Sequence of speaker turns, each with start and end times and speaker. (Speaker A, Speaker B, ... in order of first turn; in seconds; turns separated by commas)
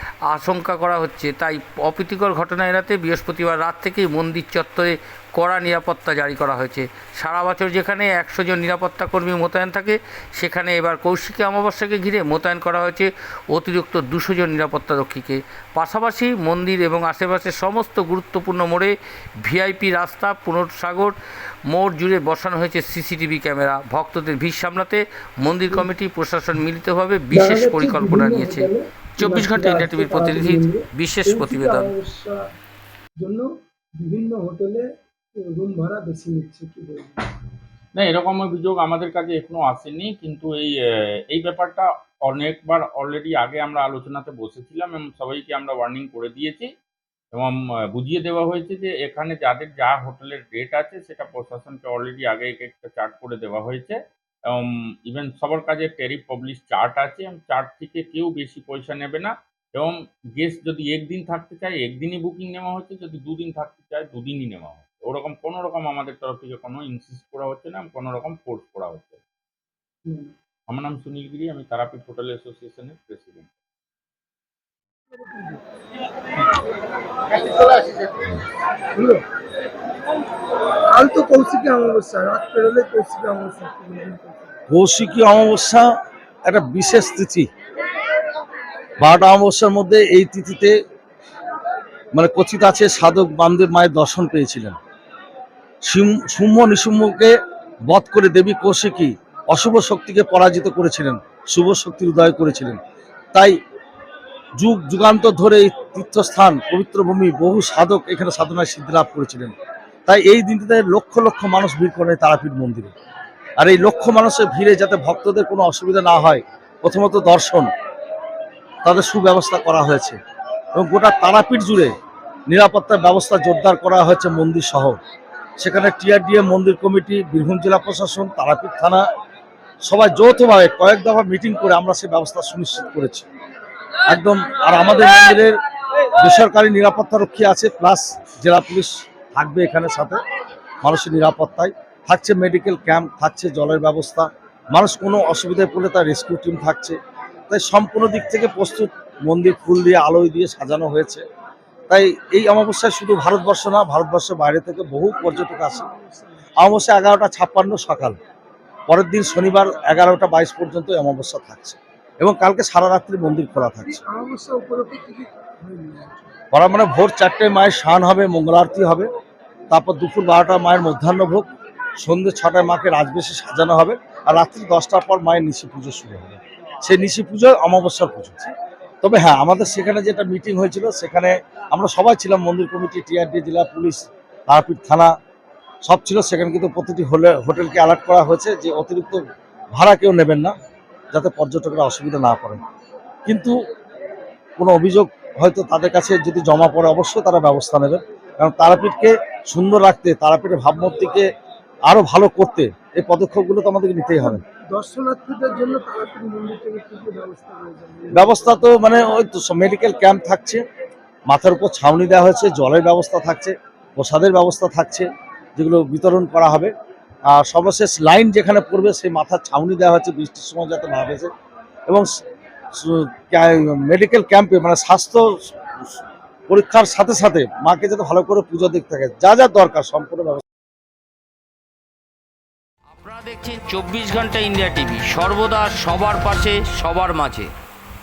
Speaker A: 0.3-21.1, Speaker A: 21.7-31.9, Speaker B: 27.3-32.4, Speaker B: 33.2-37.2, Speaker C: 37.9-40.8, Speaker C: 41.3-46.7, Speaker C: 47.3-69.2, Speaker B: 70.0-70.3, Speaker C: 70.7-73.5, Speaker B: 75.1-75.6, Speaker B: 77.4-77.8, Speaker B: 78.9-79.2, Speaker B: 80.9-84.5, Speaker D: 84.7-85.9, Speaker D: 86.4-87.5, Speaker D: 89.0-90.7, Speaker D: 92.1-94.8, Speaker D: 95.8-97.3, Speaker D: 97.8-102.8, Speaker D: 104.6-109.5, Speaker D: 110.1-112.9, Speaker D: 113.6-117.7, Speaker D: 118.8-120.2, Speaker D: 120.7-121.9, Speaker D: 122.5-125.0, Speaker D: 125.6-129.0, Speaker D: 129.8-133.2, Speaker D: 134.1-135.5, Speaker D: 136.1-140.2, Speaker D: 140.8-147.0, Speaker D: 147.5-151.2, Speaker D: 151.9-155.9, Speaker B: 155.2-156.5, Speaker D: 156.6-158.2, Speaker D: 158.9-164.0, Speaker B: 163.9-166.3, Speaker D: 166.5-169.1, Speaker D: 169.7-171.4, Speaker D: 172.0-178.5, Speaker D: 179.0-185.1, Speaker D: 185.8-189.2, Speaker D: 189.7-190.5, Speaker D: 191.1-192.6, Speaker D: 193.2-193.6, Speaker D: 194.6-201.2, Speaker D: 201.9-204.4, Speaker B: 204.2-208.8, Speaker D: 208.1-210.6, Speaker D: 211.3-216.7, Speaker D: 217.3-221.3, Speaker D: 222.7-230.4, Speaker A: 232.9-237.5